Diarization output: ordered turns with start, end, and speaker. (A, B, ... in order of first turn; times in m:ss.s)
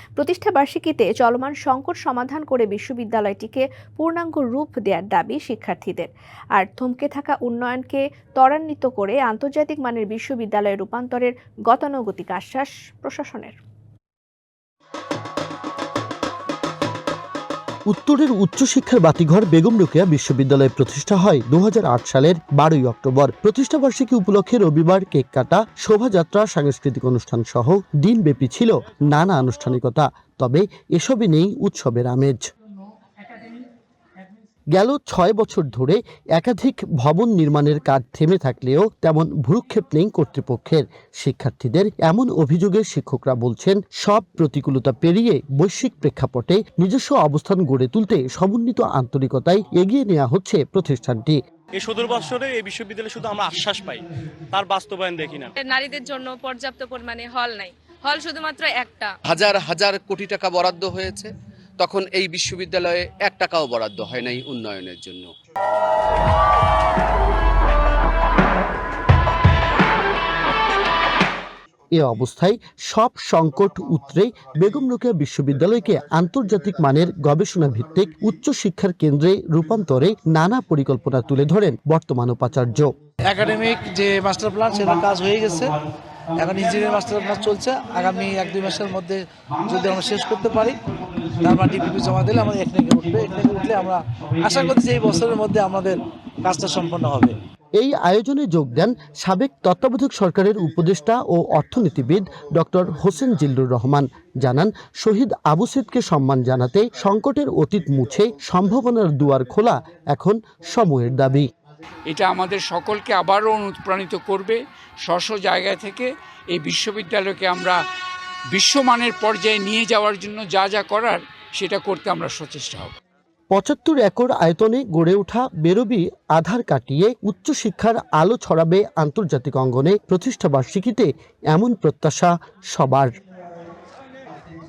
0:00.2-0:13.6 A
0:17.9-0:32.4 B
0:34.7-0:51.4 B
0:51.8-0:55.5 C
0:55.6-0:59.1 D
0:59.3-1:05.3 E
1:11.9-1:22.9 B
1:23.3-1:25.8 F
1:24.8-1:25.6 G
1:26.4-1:30.8 F
1:26.5-1:27.4 G
1:27.9-1:28.7 G
1:29.6-1:32.5 G
1:31.4-1:37.4 F
1:33.0-1:35.3 G
1:37.8-1:51.5 B
1:52.1-1:57.8 G
1:58.5-2:02.9 G
2:03.5-2:13.1 B